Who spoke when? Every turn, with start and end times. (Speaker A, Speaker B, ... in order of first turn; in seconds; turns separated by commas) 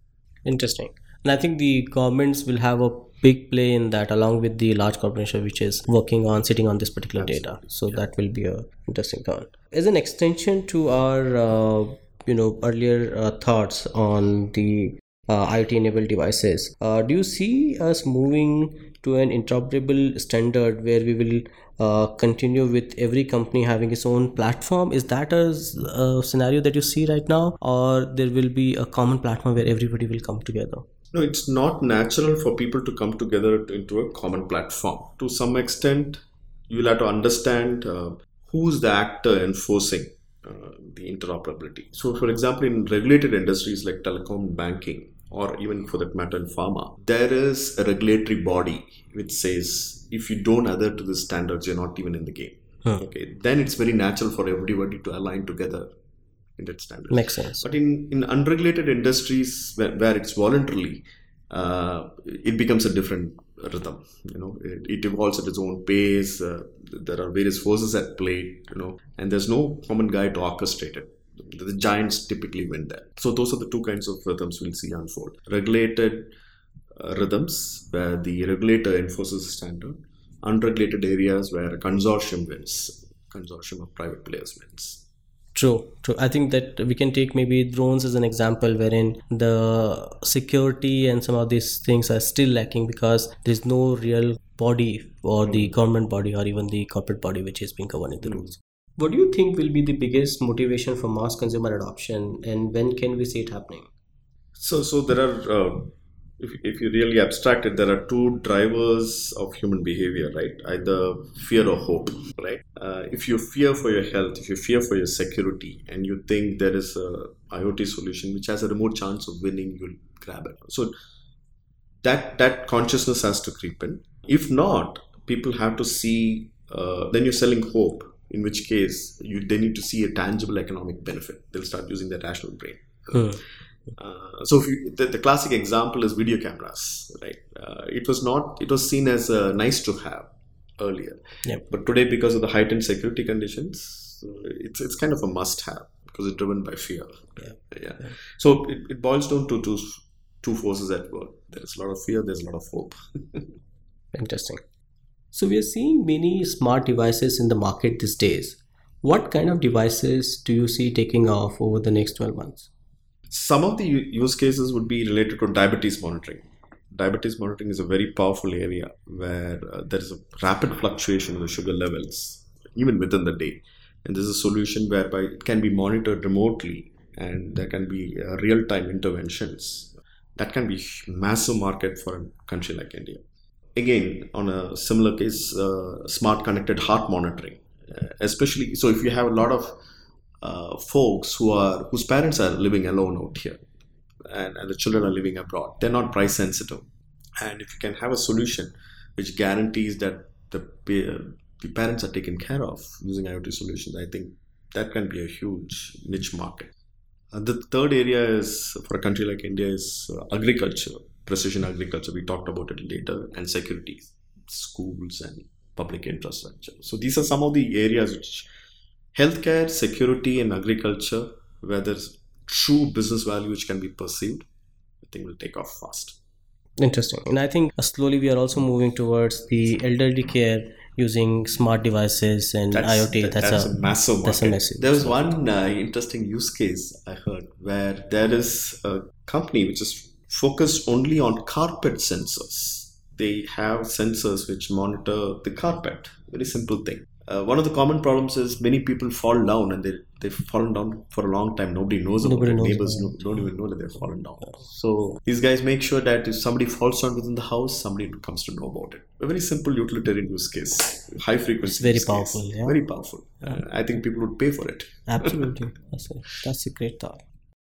Speaker A: 0.4-30.8, Speaker B: 7.2-8.0, Speaker B: 31.1-55.9, Speaker B: 56.6-76.3, Speaker A: 57.1-57.7, Speaker B: 76.9-85.0, Speaker A: 85.5-103.9, Speaker B: 95.4-95.7, Speaker B: 104.6-120.9, Speaker B: 122.0-133.4, Speaker A: 133.1-133.4, Speaker B: 134.0-153.5, Speaker A: 154.1-154.6, Speaker A: 155.3-162.7, Speaker B: 163.3-183.2, Speaker B: 183.7-189.8, Speaker B: 190.4-193.6, Speaker B: 194.2-196.9, Speaker B: 197.4-206.7, Speaker B: 207.3-218.5, Speaker B: 219.1-224.4, Speaker B: 225.0-226.2, Speaker A: 226.8-233.7, Speaker B: 232.7-265.4, Speaker A: 234.2-235.4, Speaker A: 252.2-253.2, Speaker A: 261.6-262.8, Speaker A: 265.1-267.2